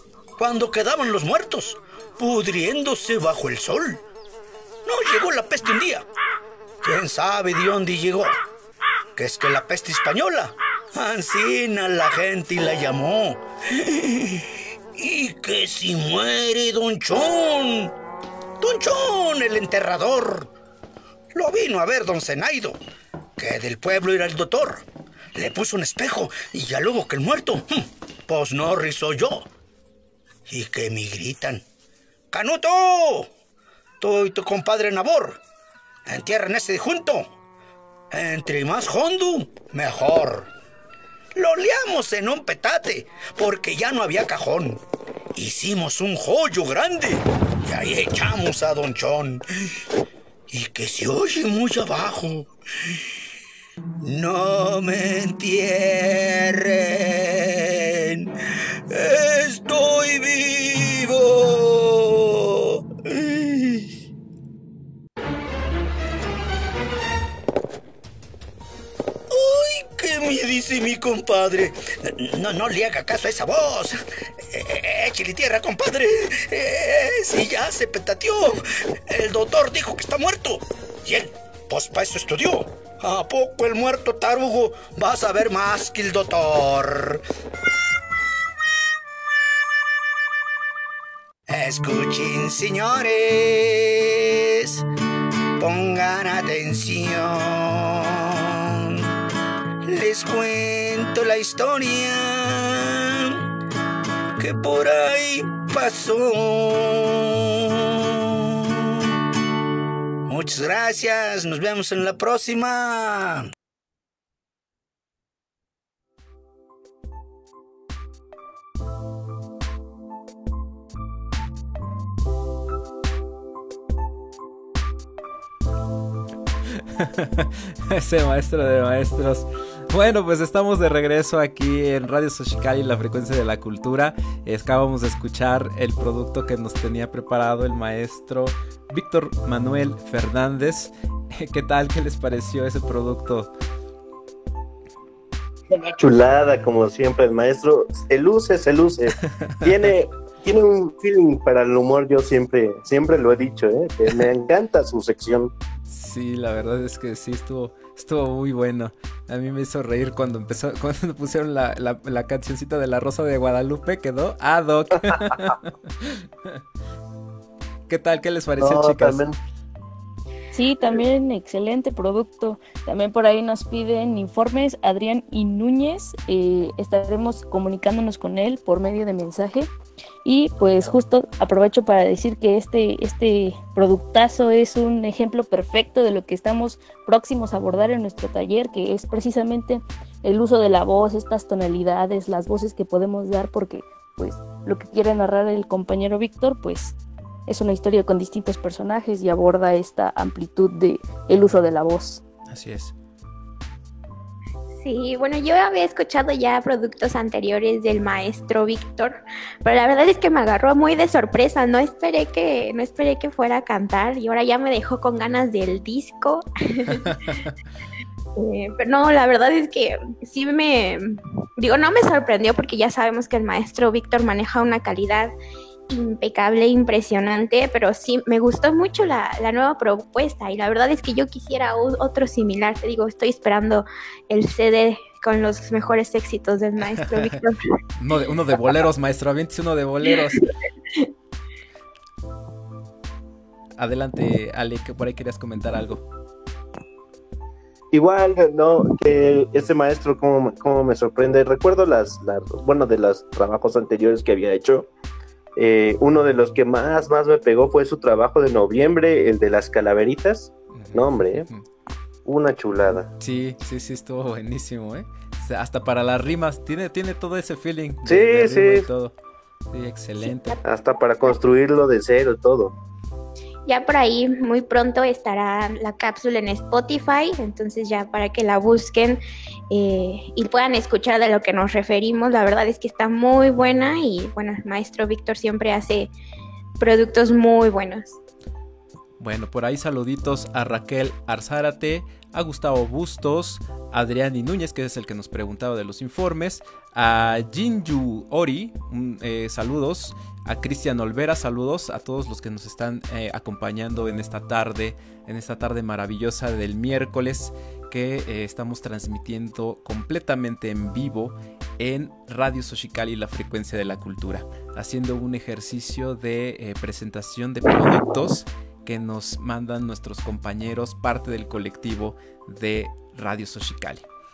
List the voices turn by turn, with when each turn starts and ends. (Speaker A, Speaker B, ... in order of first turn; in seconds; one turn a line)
Speaker A: 0.4-4.0
Speaker A: 4.8-6.1
Speaker A: 6.8-8.4
Speaker A: 9.2-17.9
Speaker A: 18.6-20.5
Speaker A: 21.3-22.8
Speaker A: 23.4-24.8
Speaker A: 25.4-29.5
Speaker A: 30.5-31.6
Speaker A: 32.3-33.3
Speaker A: 34.0-35.4
Speaker A: 36.1-37.3
Speaker A: 38.1-40.5
Speaker A: 41.4-44.8
Speaker A: 45.4-49.4
Speaker A: 50.5-52.5
Speaker A: 54.0-58.3
Speaker A: 58.9-63.9
Speaker A: 69.3-74.0
Speaker A: 74.5-87.2
Speaker A: 91.5-94.8
Speaker A: 95.6-99.0
Speaker A: 99.8-103.4
Speaker A: 104.4-109.0
Speaker A: 110.3-113.5
Speaker B: 127.0-143.5
Speaker C: 145.7-155.5
Speaker B: 149.5-149.7
Speaker B: 155.9-166.6
Speaker B: 167.9-169.2
Speaker C: 168.6-169.4
Speaker D: 170.5-179.7
Speaker D: 180.2-197.0
Speaker D: 197.5-202.2
Speaker B: 202.5-202.9
Speaker E: 204.8-217.3
Speaker E: 218.4-225.3
Speaker E: 225.9-237.6
Speaker B: 238.0-240.4
Speaker B: 243.8-246.0
Speaker C: 247.9-254.9
Speaker C: 255.6-261.5
Speaker B: 260.7-261.6
Speaker C: 262.2-263.1
Speaker B: 263.2-269.1
Speaker C: 268.1-268.9
Speaker B: 269.7-270.6
Speaker E: 270.3-270.6
Speaker C: 270.6-272.7
Speaker E: 273.7-279.2
Speaker E: 279.7-286.1
Speaker E: 286.8-288.2
Speaker B: 289.2-324.0